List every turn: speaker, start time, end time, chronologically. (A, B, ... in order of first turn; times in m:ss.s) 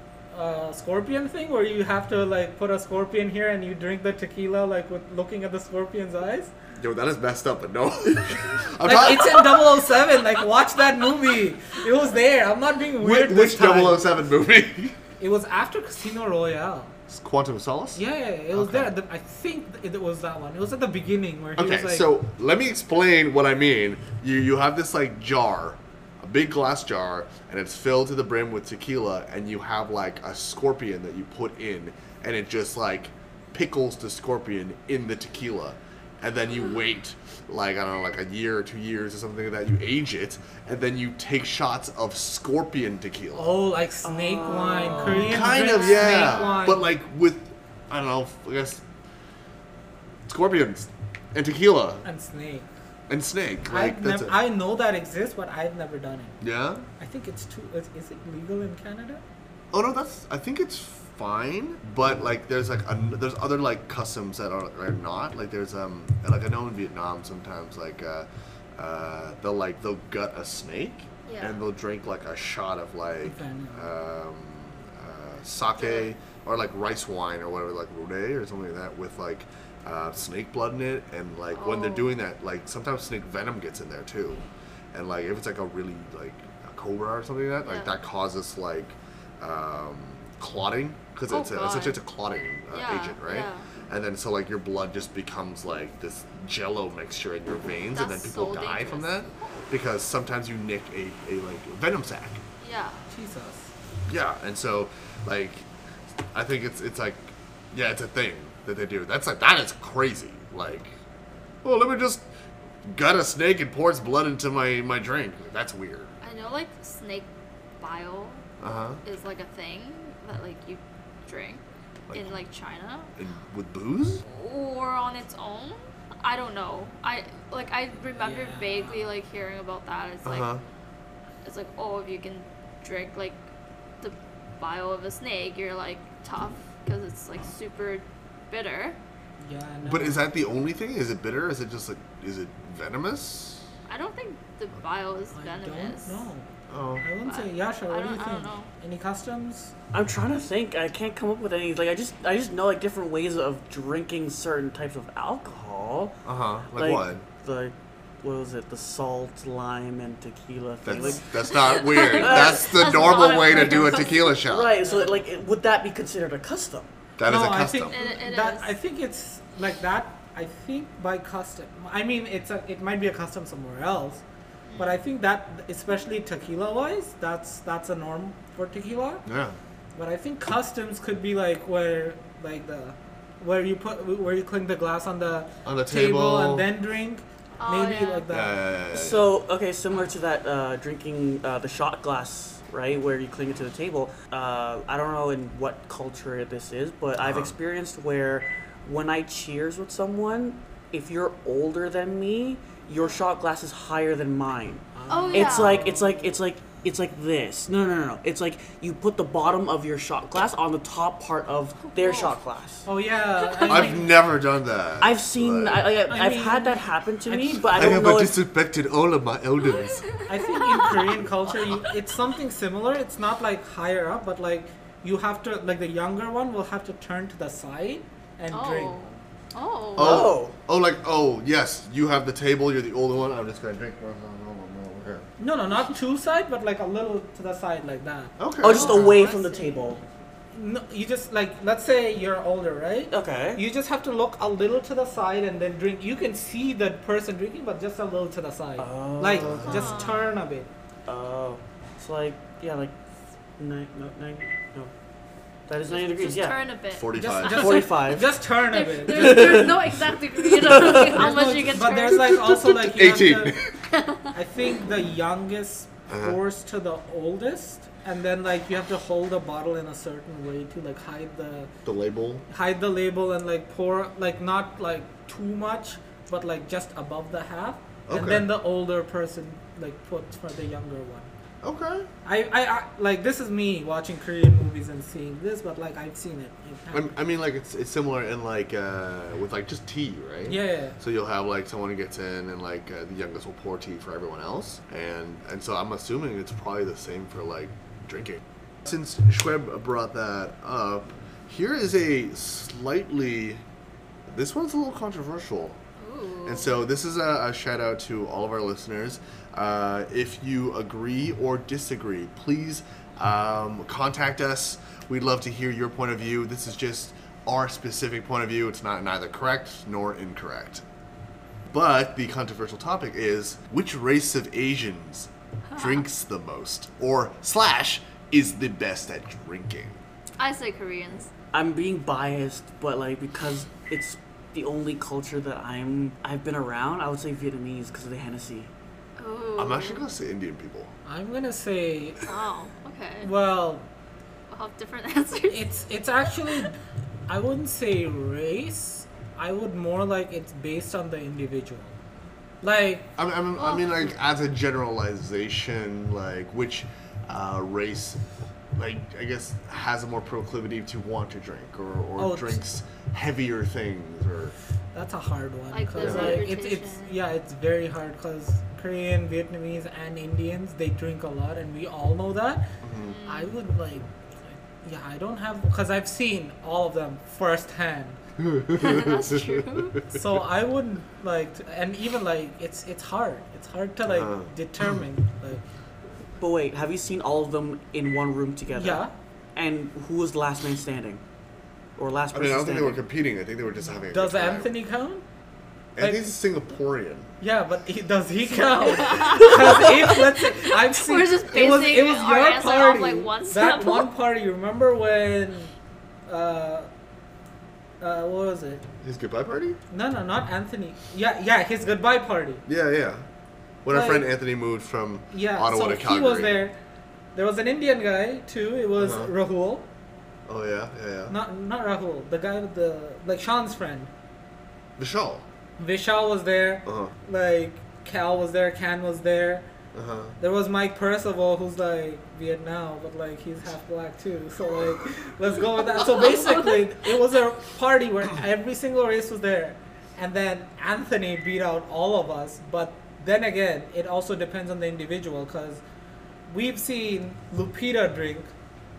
0:00.3-0:06.5 A
0:06.8-0:09.8 B
0:08.8-0:14.1 A
0:13.0-0:15.0 B
0:15.2-0:16.9 A
0:17.1-0:18.9 B
0:18.0-0:22.1 A
0:21.6-0:43.5 B
0:43.3-0:46.8 A
0:44.0-0:45.5 C
0:45.0-0:48.8 B
0:45.6-0:46.7 D
0:50.3-0:52.0 B
0:52.0-0:52.7 A
0:53.1-0:54.4 B
0:53.7-0:56.4 A
0:56.4-0:56.8 B
0:57.0-0:59.2 A
0:59.7-1:24.4 B
1:11.2-1:11.6 D
1:13.2-1:13.9 A
1:15.8-1:16.1 D
1:21.5-1:22.1 D
1:24.9-1:42.4 B
1:27.6-1:27.9 D
1:31.3-1:32.0 D
1:32.7-1:33.7 D
1:37.9-1:39.5 D
1:42.6-1:43.0 D
1:43.1-1:43.7 A
1:44.1-1:45.7 B
1:46.3-1:50.9 B
1:51.6-1:52.2 B
1:52.8-1:56.1 B
1:56.2-1:57.3 D
1:57.8-1:58.5 D
1:58.6-1:59.0 B
1:59.0-2:03.1 D
2:02.1-2:02.4 B
2:03.2-2:04.2 B
2:04.2-2:10.6 D
2:08.2-2:09.0 A
2:10.2-2:10.6 B
2:11.4-2:13.4 D
2:14.0-2:19.0 D
2:19.4-2:20.2 A
2:19.8-2:23.7 B
2:23.9-2:26.2 D
2:25.3-2:29.7 A
2:26.7-2:27.0 B
2:27.2-2:28.7 D
2:29.9-2:36.2 C
2:36.2-2:37.2 B
2:36.7-2:41.2 C
2:40.8-2:44.8 B
2:41.4-2:44.4 D
2:42.2-2:43.2 C
2:43.5-2:44.1 A
2:44.4-2:46.9 C
2:47.2-2:47.9 B
2:47.2-2:54.2 A
2:47.9-2:48.7 D
2:54.7-2:55.0 D
2:54.8-2:59.2 A
2:59.2-2:59.6 B
2:59.9-3:08.6 A
3:05.6-3:06.7 B
3:07.6-3:08.3 D
3:08.3-3:09.3 B
3:08.9-3:32.8 C
3:17.2-3:17.5 B
3:24.9-3:26.4 A
3:25.1-3:25.9 D
3:31.8-3:32.4 D
3:32.8-3:34.1 A
3:33.3-3:34.2 D
3:33.6-3:36.0 B
3:35.0-3:38.4 C
3:36.1-3:38.1 A
3:37.7-3:40.1 B
3:39.8-3:41.1 D
3:40.3-3:49.0 A
3:48.5-3:50.3 D
3:50.0-3:50.5 C
3:50.0-3:55.3 B
3:55.4-3:58.3 A
3:58.4-3:59.2 B
3:58.6-4:00.0 C
3:58.6-4:00.0 D
4:00.5-4:10.7 A
4:03.1-4:03.6 C
4:08.8-4:09.9 C
4:09.4-4:09.9 B
4:09.6-4:10.3 D
4:11.0-4:13.0 C
4:13.6-4:14.9 C
4:15.7-4:16.6 C
4:15.8-4:17.9 D
4:16.9-4:17.8 B
4:17.1-4:19.7 A
4:17.5-4:18.3 C
4:18.6-4:22.6 D
4:19.1-4:21.2 C
4:20.8-4:23.6 A
4:22.5-4:23.7 B
4:23.9-4:24.3 D
4:24.3-4:31.7 A
4:26.1-4:26.4 B
4:31.8-4:32.4 B
4:32.5-4:41.3 A
4:38.1-4:38.5 B
4:41.6-4:42.1 B
4:42.2-4:47.1 A
4:46.9-5:03.6 B
4:50.5-4:51.0 A
5:04.3-5:05.8 B
5:06.0-5:06.7 D
5:06.4-5:20.8 B
5:21.7-5:30.0 B
5:30.4-5:31.3 D
5:31.5-5:38.7 C
5:39.2-5:40.0 D
5:39.6-5:40.9 B
5:41.0-5:42.2 A
5:42.2-5:43.3 D
5:43.2-5:43.9 A
5:44.5-5:45.7 D
5:45.5-5:51.9 A
5:52.6-5:53.1 A
5:53.2-5:58.2 B
5:53.6-5:53.9 D
5:58.7-6:04.5 B
6:02.2-6:02.6 A
6:04.9-6:12.7 A
6:05.7-6:07.2 D
6:06.0-6:06.4 B
6:12.8-6:13.1 B
6:13.0-6:13.5 D
6:13.2-6:18.2 A
6:18.4-6:20.0 B
6:18.7-6:20.0 D
6:20.1-6:25.6 A
6:24.1-6:24.5 B
6:26.4-6:31.2 C
6:28.7-6:29.1 A
6:32.0-6:33.0 C
6:32.3-6:34.7 B
6:34.0-6:35.2 A
6:36.0-6:37.3 B
6:36.0-6:36.3 A
6:37.4-6:45.7 A
6:38.7-6:44.1 D
6:46.3-6:46.9 A
6:48.0-6:48.8 A
6:49.0-6:49.8 B
6:49.9-6:52.6 A
6:52.6-6:53.2 B
6:53.8-6:56.6 B
6:53.9-6:54.3 A
6:55.3-6:56.8 A
6:57.3-6:59.9 A
6:59.0-6:59.3 B
7:00.5-7:01.3 B
7:01.3-7:04.1 A
7:05.0-7:05.4 B
7:05.8-7:09.6 A
7:06.8-7:07.1 B
7:09.9-7:10.4 B
7:10.4-7:25.8 A
7:16.0-7:16.8 D
7:26.5-7:28.5 A